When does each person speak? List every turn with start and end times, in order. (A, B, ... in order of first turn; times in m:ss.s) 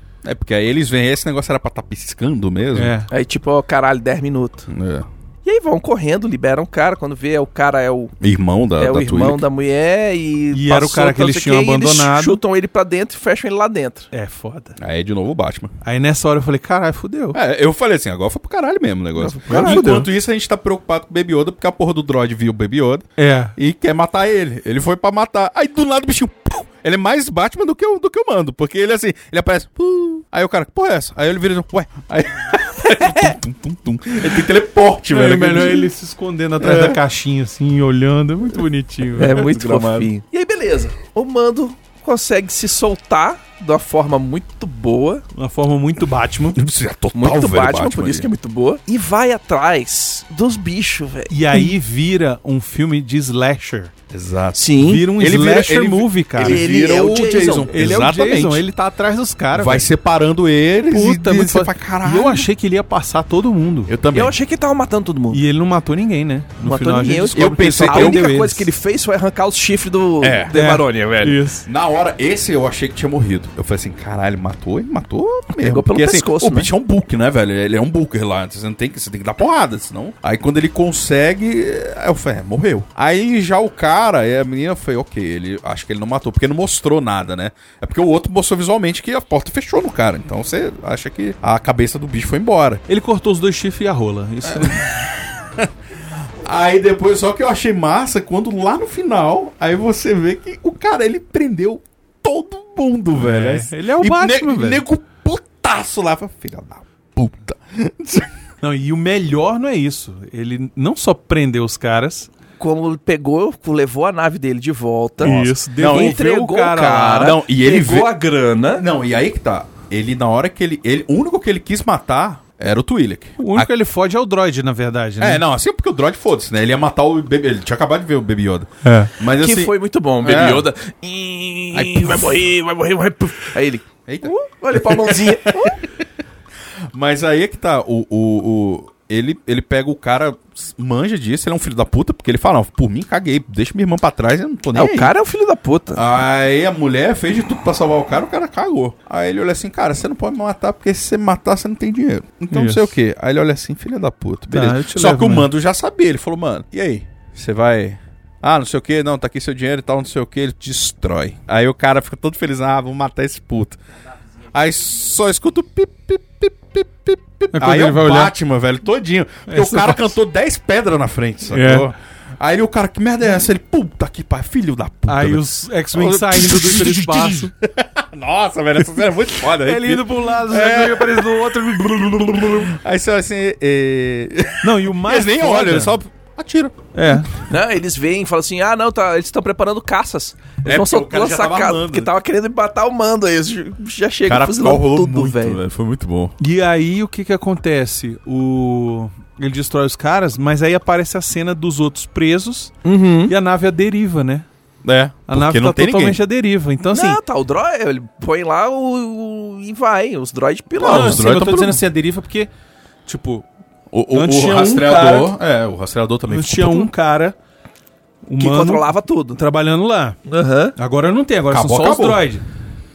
0:00.2-0:02.9 A
0:02.7-0:03.1 B
0:03.1-0:04.7 C
0:04.7-0:05.0 A
0:05.4-0:08.1 C
0:08.2-0:09.4 A
0:08.8-0:14.1 C
0:10.5-0:12.4 B
0:14.1-0:14.7 B
0:14.8-0:15.7 A
0:15.8-0:17.4 B
0:17.3-0:35.9 A
0:19.2-0:20.0 C
0:19.5-0:20.1 B
0:23.2-0:23.5 B
0:35.1-0:40.0 B
0:36.6-0:37.0 A
0:39.2-0:45.2 C
0:39.3-0:40.1 A
0:45.3-0:46.6 B
0:46.5-0:48.3 A
0:47.1-0:51.7 C
0:51.3-0:53.9 B
0:54.1-0:58.6 A
0:54.5-0:55.0 C
0:54.8-0:56.6 B
0:56.4-0:58.0 C
0:57.7-0:59.9 B
0:59.5-1:02.5 A
1:00.9-1:03.9 B
1:03.9-1:04.3 A
1:04.1-1:05.4 C
1:05.3-1:08.7 B
1:06.6-1:11.4 C
1:07.3-1:08.3 A
1:10.2-1:10.5 A
1:10.5-1:11.6 B
1:11.6-1:32.8 A
1:15.5-1:16.7 C
1:32.9-1:35.1 B
1:34.5-1:35.7 A
1:36.4-1:48.3 A
1:43.1-1:44.8 B
1:48.6-1:52.3 B
1:52.6-1:58.8 C
1:55.2-1:57.4 B
1:55.2-1:56.2 A
1:57.2-1:58.2 A
1:58.7-2:03.7 A
2:03.4-2:05.4 B
2:05.2-2:10.7 A
2:08.8-2:09.1 B
2:09.3-2:15.8 C
2:11.7-2:12.4 A
2:14.0-2:15.9 A
2:16.9-2:25.1 A
2:24.7-2:26.0 C
2:25.9-2:43.8 A
2:32.5-2:33.0 B
2:34.5-2:35.5 B
2:44.5-3:06.9 A
2:47.5-2:48.3 B
2:49.5-2:50.2 B
2:51.5-2:51.9 B
2:55.0-2:57.5 B
2:59.5-3:02.7 B
3:04.6-3:06.0 B
3:06.9-3:07.3 B
3:07.5-3:15.6 C
3:10.6-3:12.1 A
3:14.2-3:16.3 A
3:16.4-3:24.5 B
3:22.8-3:23.3 C
3:24.8-3:26.2 A
3:25.3-3:27.2 B
3:26.9-3:31.3 C
3:30.8-3:31.8 A
3:30.8-3:32.5 B
3:33.0-3:33.5 B
3:33.9-3:36.9 A
3:34.1-3:35.3 B
3:36.3-3:37.4 B
3:38.2-3:40.2 B
3:38.4-3:39.4 C
3:40.3-3:40.7 C
3:40.8-3:42.4 B
3:41.5-3:42.2 A